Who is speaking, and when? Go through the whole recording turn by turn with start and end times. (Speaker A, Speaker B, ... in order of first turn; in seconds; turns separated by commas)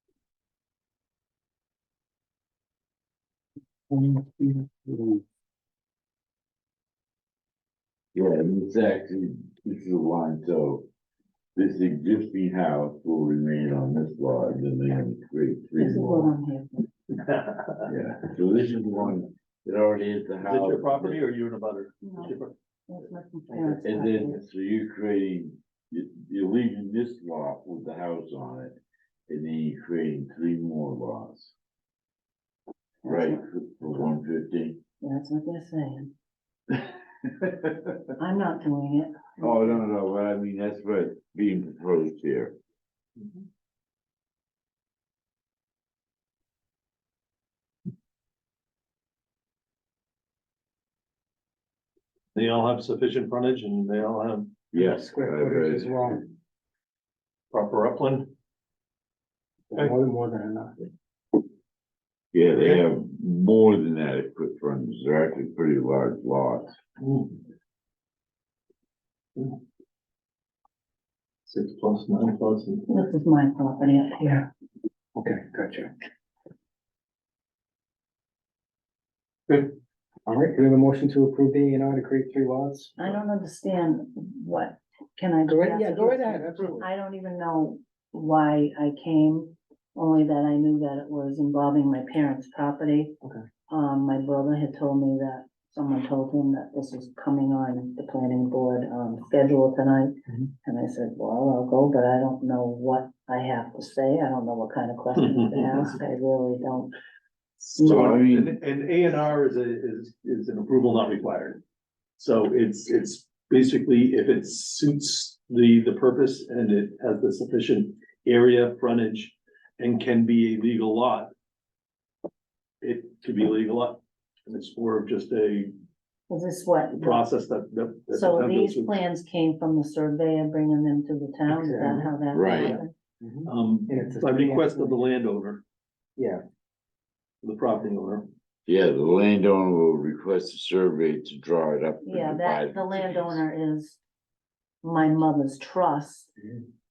Speaker A: 3.9-5.2, Speaker B: 8.2-10.9, Speaker B: 11.6-16.3, Speaker C: 15.8-16.9, Speaker D: 17.1-17.9, Speaker B: 17.9-21.2, Speaker D: 20.4-22.5, Speaker C: 22.0-24.4, Speaker B: 23.7-28.8, Speaker B: 29.3-31.5, Speaker C: 33.0-33.4, Speaker B: 33.0-34.8, Speaker C: 35.0-36.1, Speaker B: 37.4-38.0, Speaker C: 38.2-39.9, Speaker B: 39.4-42.5, Speaker D: 52.4-54.6, Speaker B: 54.7-56.2, Speaker A: 54.8-56.2, Speaker D: 57.5-58.3, Speaker A: 59.7-60.8, Speaker B: 62.3-66.7, Speaker D: 67.0-67.4, Speaker D: 71.5-72.9, Speaker C: 72.9-74.5, Speaker A: 75.2-75.9, Speaker A: 80.3-82.9, Speaker C: 83.0-106.9, Speaker A: 85.5-86.9, Speaker D: 105.2-106.0, Speaker D: 107.6-111.6, Speaker C: 107.8-108.1, Speaker B: 107.8-108.6, Speaker D: 112.2-121.3, Speaker D: 122.8-125.7, Speaker C: 126.3-127.2, Speaker D: 126.9-129.0, Speaker C: 128.1-132.9, Speaker A: 131.5-135.1, Speaker B: 132.3-132.8, Speaker D: 133.4-135.6, Speaker A: 136.2-136.4, Speaker D: 137.4-138.3, Speaker B: 138.7-143.4, Speaker C: 142.0-144.0, Speaker C: 144.8-146.3